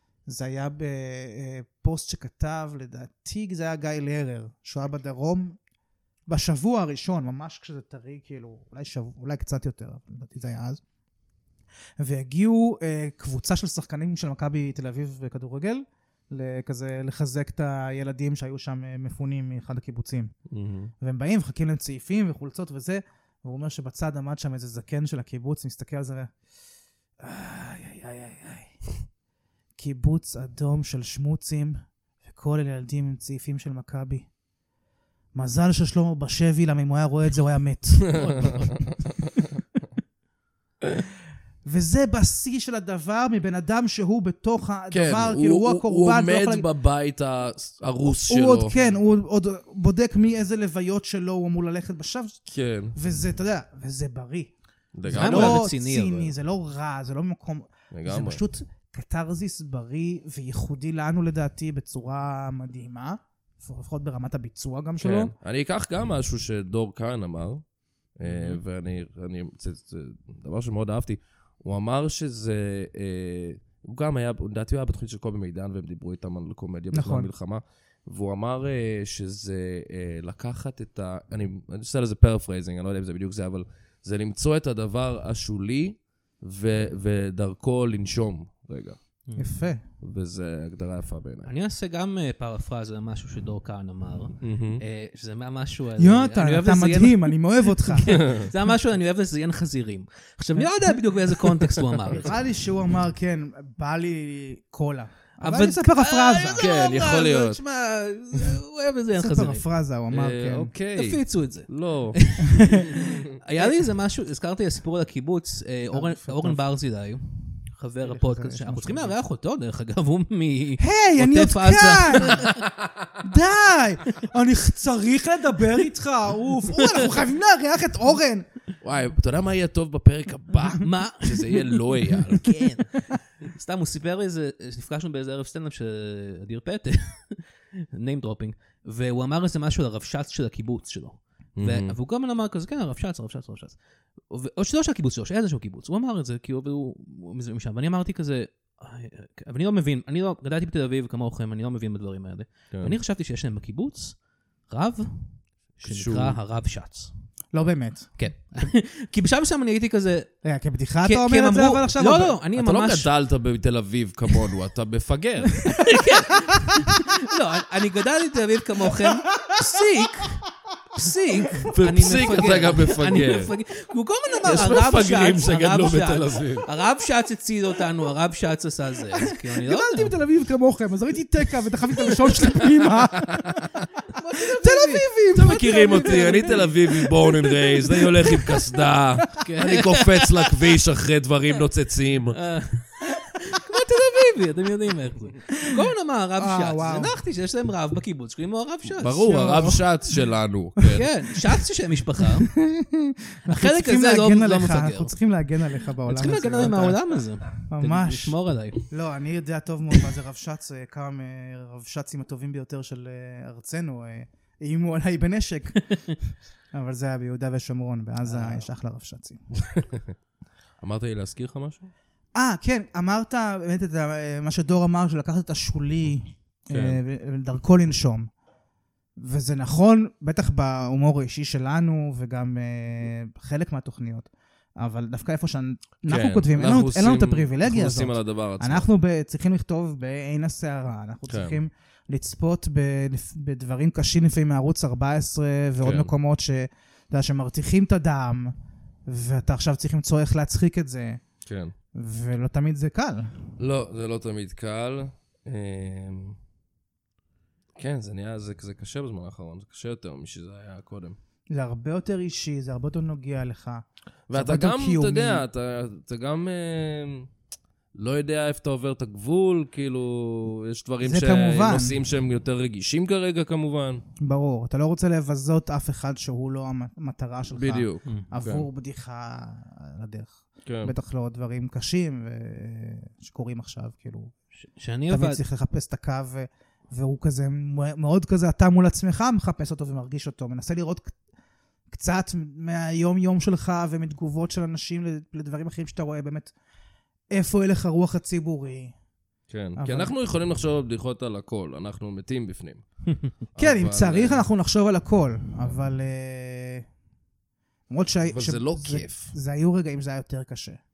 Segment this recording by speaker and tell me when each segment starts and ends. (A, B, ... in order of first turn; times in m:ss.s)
0:00.3-0:05.6 A
0:06.3-0:10.8 A
0:12.0-0:20.3 A
0:20.5-0:20.9 B
0:21.0-0:26.3 A
0:27.2-0:28.9 A
0:29.8-0:34.3 A
0:35.3-0:38.6 A
0:38.1-0:38.7 C
0:38.2-0:38.5 B
0:41.6-0:46.6 A
0:44.9-0:48.7 B
0:48.3-0:54.5 A
0:52.5-0:52.9 B
0:54.9-0:55.6 B
0:55.1-1:05.3 A
0:55.1-0:56.3 C
0:57.9-0:58.4 B
1:05.0-1:07.6 B
1:08.2-1:29.0 B
1:16.9-1:17.3 A
1:29.3-1:29.7 C
1:29.4-1:29.8 A
1:30.0-1:31.5 B
1:31.4-1:42.3 C
1:34.4-1:34.8 B
1:36.0-1:38.2 A
1:42.2-1:46.6 A
1:45.4-1:49.6 C
1:46.6-1:47.6 B
1:49.2-1:50.7 A
1:50.1-1:52.2 B
1:50.9-2:02.6 C
1:52.5-1:53.0 A
1:55.9-1:56.6 A
1:58.0-1:59.1 A
2:00.8-2:02.5 A
2:02.6-2:03.1 B
2:03.2-2:08.5 A
2:06.8-2:07.1 C
2:08.8-2:12.7 B
2:10.8-2:23.8 C
2:21.6-2:21.9 B
2:24.3-2:34.2 C
2:34.7-2:37.1 C
2:35.8-2:36.4 B
2:37.5-2:38.1 A
2:38.2-2:40.3 C
2:40.4-2:42.4 A
2:41.0-2:43.1 C
2:42.6-2:45.7 B
2:45.6-3:00.1 C
2:49.1-2:50.2 A
2:51.7-2:53.5 B
2:54.4-2:56.7 B
2:59.3-3:03.7 A
3:02.6-3:03.7 B
3:04.1-3:06.7 C
3:04.3-3:09.3 A
3:05.3-3:12.4 B
3:09.4-3:10.5 C
3:12.3-3:19.4 C
3:16.4-3:17.1 A
3:19.0-3:21.0 B
3:19.2-3:19.8 A
3:20.9-3:22.5 C
3:22.4-3:27.0 A
3:23.5-3:25.1 C
3:26.0-3:28.8 C
3:27.6-3:28.3 A
3:28.9-3:36.2 A
3:36.7-3:39.4 A
3:38.2-3:38.7 C
3:39.7-3:40.1 B
3:40.8-3:41.9 B
3:42.3-3:48.3 A
3:46.7-3:47.0 B
3:49.2-4:08.5 A
3:56.0-3:58.9 B
4:01.3-4:01.6 B
4:05.8-4:06.1 B
4:09.1-4:11.2 A
4:11.4-4:11.7 B
4:11.9-4:13.5 A
4:13.6-4:16.4 B
4:17.8-4:21.2 B
4:21.5-4:25.4 A
4:24.3-4:27.3 B
4:27.9-4:34.0 B
4:31.0-4:32.0 A
4:34.2-4:44.3 A
4:37.5-4:38.6 B
4:40.6-4:40.9 B
4:44.6-4:45.4 C
4:45.1-4:51.1 A
4:51.9-4:56.5 A
4:57.3-4:58.9 A
4:59.5-5:02.8 B
4:59.8-5:00.1 A
5:03.5-5:04.4 B
5:03.6-5:06.8 A
5:07.9-5:10.8 A
5:08.3-5:09.3 B